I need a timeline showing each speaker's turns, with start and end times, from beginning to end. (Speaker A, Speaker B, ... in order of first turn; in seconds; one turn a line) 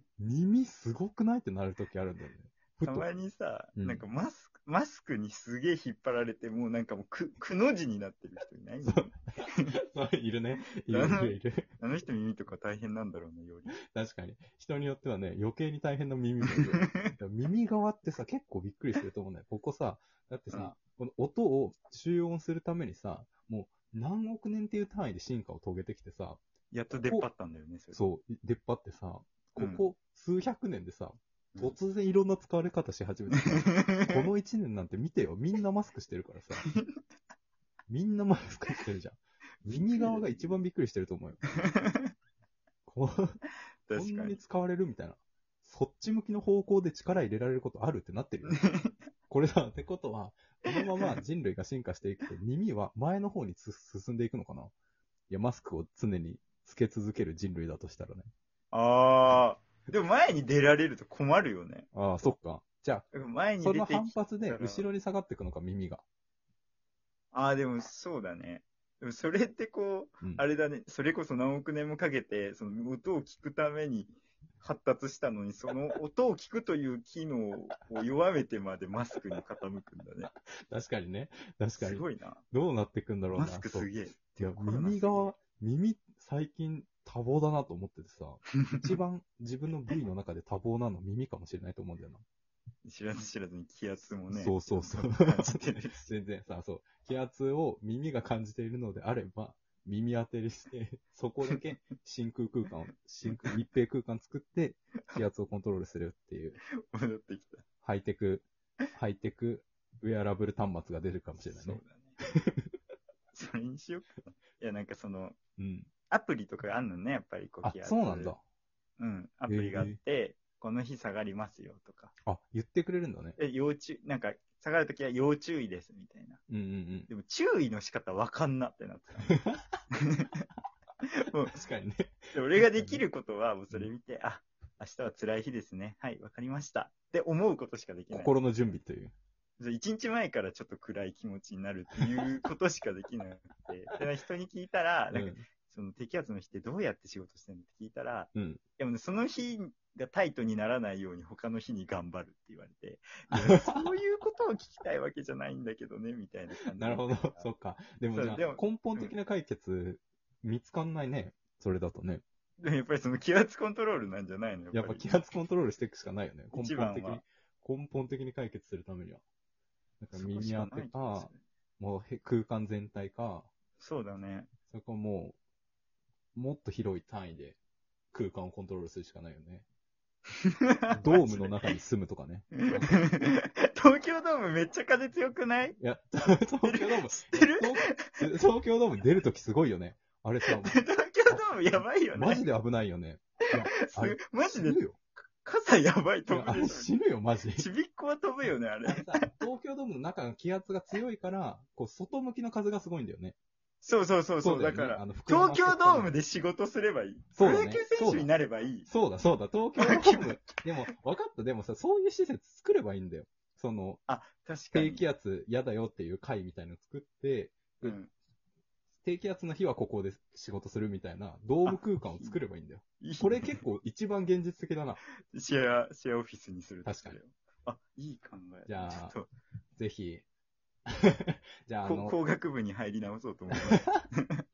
Speaker A: 0.2-3.1
Speaker B: 2.8-9.8
Speaker A: 3.8-4.0
Speaker A: 8.9-11.7
Speaker B: 10.7-13.8
Speaker A: 13.9-27.3
Speaker B: 16.4-17.1
Speaker B: 20.5-20.8
Speaker B: 26.7-28.0
Speaker A: 27.9-36.7
Speaker B: 29.6-29.9
Speaker B: 33.5-34.3
Speaker B: 36.6-36.9
Speaker A: 37.9-41.4
Speaker B: 39.6-40.6
Speaker B: 41.6-42.1
Speaker A: 42.9-43.4
Speaker B: 43.9-44.4
Speaker A: 43.9-48.6
Speaker B: 48.5-49.0
Speaker A: 49.3-54.7
Speaker A: 55.3-58.3
Speaker B: 58.7-61.9
Speaker A: 61.9-63.1
Speaker B: 63.1-64.9
Speaker A: 63.6-66.0
Speaker B: 67.3-80.3
Speaker A: 80.7-92.2
Speaker B: 81.8-82.4
Speaker B: 83.3-85.3
Speaker B: 88.6-89.0
Speaker B: 92.8-96.1
Speaker A: 94.3-106.6
Speaker B: 103.2-103.5
Speaker B: 106.8-107.7
Speaker A: 107.8-112.7
Speaker B: 111.5-112.2
Speaker B: 113.3-115.4
Speaker A: 115.6-115.9
Speaker B: 116.1-118.3
Speaker A: 117.6-118.4
Speaker B: 119.0-122.1
Speaker A: 119.5-120.0
Speaker A: 122.2-123.4
Speaker B: 123.4-126.4
Speaker A: 126.5-127.1
Speaker B: 127.1-129.4
Speaker A: 129.3-129.6
Speaker B: 129.9-130.4
Speaker B: 131.2-131.6
Speaker A: 131.5-133.0
Speaker B: 132.3-138.6
Speaker A: 138.1-139.1
Speaker B: 139.6-157.5
Speaker A: 145.1-145.4
Speaker A: 148.3-148.6
Speaker A: 153.3-153.8
Speaker A: 156.7-162.2
Speaker B: 158.1-159.1
Speaker B: 162.6-165.2
Speaker A: 164.7-169.2
Speaker B: 166.5-167.2
Speaker A: 170.0-173.5
Speaker B: 170.2-171.4
Speaker B: 173.8-174.5
Speaker A: 174.7-175.4
Speaker A: 176.3-177.6
Speaker A: 178.1-179.7
Speaker B: 180.3-181.7
Speaker A: 180.9-183.1
Speaker B: 182.6-188.3
Speaker A: 185.8-195.0
Speaker B: 190.5-192.5
Speaker B: 193.8-194.8
Speaker B: 195.4-196.9
Speaker A: 196.3-197.7
Speaker B: 197.6-199.3
Speaker A: 198.9-203.4
Speaker B: 203.8-208.9
Speaker A: 204.4-206.2
Speaker A: 207.3-208.3
Speaker A: 208.9-214.0
Speaker B: 209.8-210.4
Speaker B: 214.1-215.0
Speaker A: 214.7-218.0
Speaker B: 217.8-218.1
Speaker A: 219.0-225.0
Speaker B: 221.7-222.4
Speaker B: 223.0-223.6
Speaker B: 225.2-229.3
Speaker A: 226.8-227.2
Speaker A: 228.7-229.2
Speaker A: 229.8-230.2
Speaker A: 230.9-232.2
Speaker B: 231.8-234.4